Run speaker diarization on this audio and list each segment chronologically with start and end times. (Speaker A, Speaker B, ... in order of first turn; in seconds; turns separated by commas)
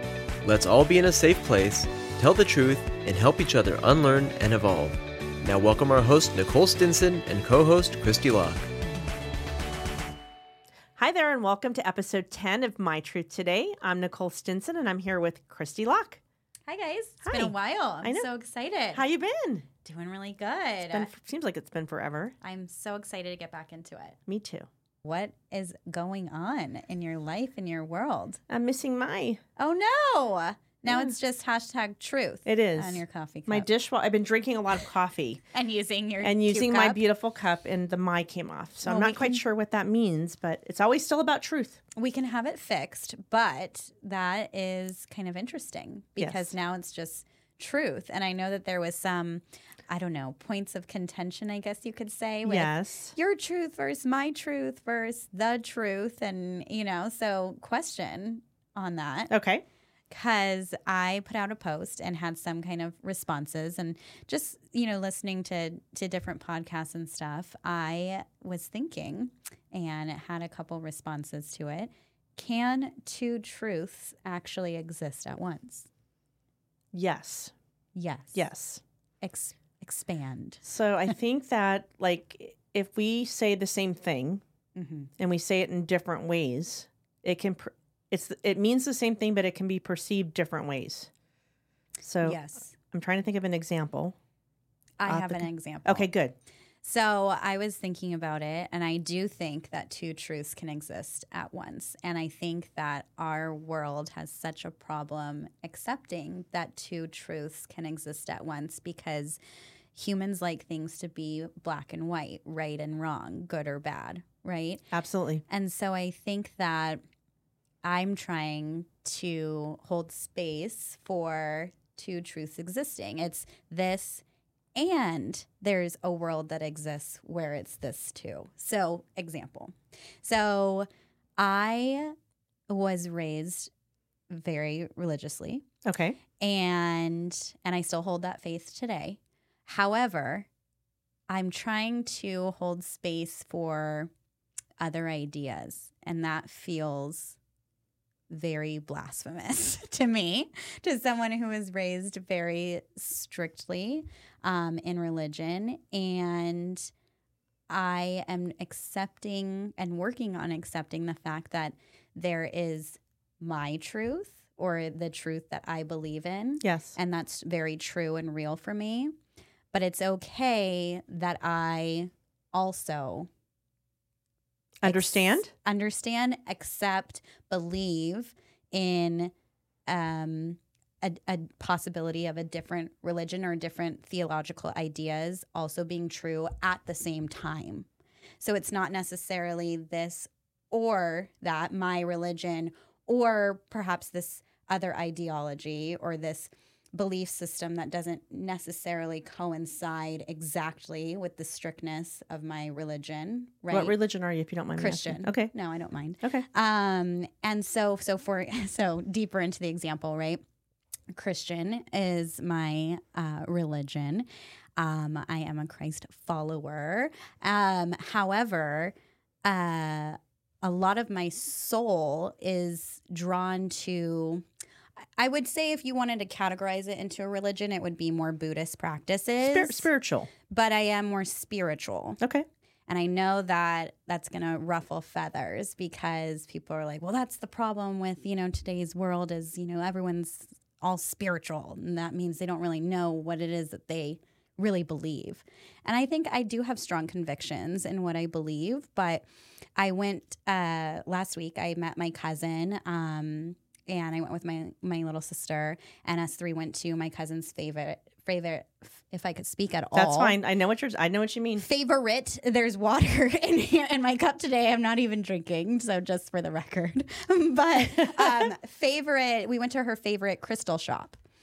Speaker A: 0.4-8.7, Speaker B: 11.0-16.2, Speaker C: 16.7-19.0, Speaker B: 17.2-18.3, Speaker B: 18.9-19.7, Speaker C: 19.8-21.1, Speaker B: 20.9-22.4, Speaker C: 22.4-24.2, Speaker B: 24.3-24.7, Speaker C: 25.0-28.4, Speaker B: 28.5-29.4, Speaker C: 29.6-33.7, Speaker B: 30.9-31.1, Speaker B: 32.5-35.4, Speaker C: 35.5-37.0, Speaker B: 36.2-41.8, Speaker C: 38.8-39.4, Speaker C: 42.0-59.3, Speaker B: 46.2-46.5, Speaker B: 52.5-53.1, Speaker B: 59.3-59.6, Speaker C: 60.1-75.9, Speaker B: 76.9-77.5, Speaker C: 78.0-78.4, Speaker B: 78.3-78.8, Speaker C: 79.2-81.1, Speaker B: 80.6-84.4, Speaker C: 84.8-85.1, Speaker B: 85.2-91.1, Speaker B: 92.0-92.4, Speaker C: 92.2-92.7, Speaker B: 92.9-94.2, Speaker C: 95.0-96.1, Speaker B: 95.1-96.3, Speaker C: 96.8-109.4, Speaker C: 109.9-114.9, Speaker B: 114.9-115.4, Speaker C: 115.5-117.0, Speaker C: 117.8-124.2, Speaker C: 124.8-130.9, Speaker C: 131.4-132.2, Speaker C: 132.7-133.7, Speaker C: 134.3-135.7, Speaker B: 135.8-136.2, Speaker C: 136.4-140.5, Speaker C: 141.3-144.1, Speaker C: 144.8-147.4, Speaker C: 148.3-156.9, Speaker C: 157.7-169.1, Speaker B: 166.6-167.0, Speaker C: 169.7-173.3, Speaker B: 174.8-175.5, Speaker C: 174.8-179.3, Speaker C: 179.9-187.9, Speaker C: 188.4-204.0, Speaker B: 203.7-205.5, Speaker C: 204.8-210.4, Speaker C: 211.1-214.3, Speaker C: 214.8-224.4, Speaker C: 225.2-229.9, Speaker B: 229.4-230.3, Speaker C: 230.5-232.2, Speaker B: 232.2-232.5, Speaker C: 232.9-249.2, Speaker C: 249.8-260.4, Speaker B: 259.9-261.6, Speaker C: 261.6-271.2, Speaker B: 267.8-268.5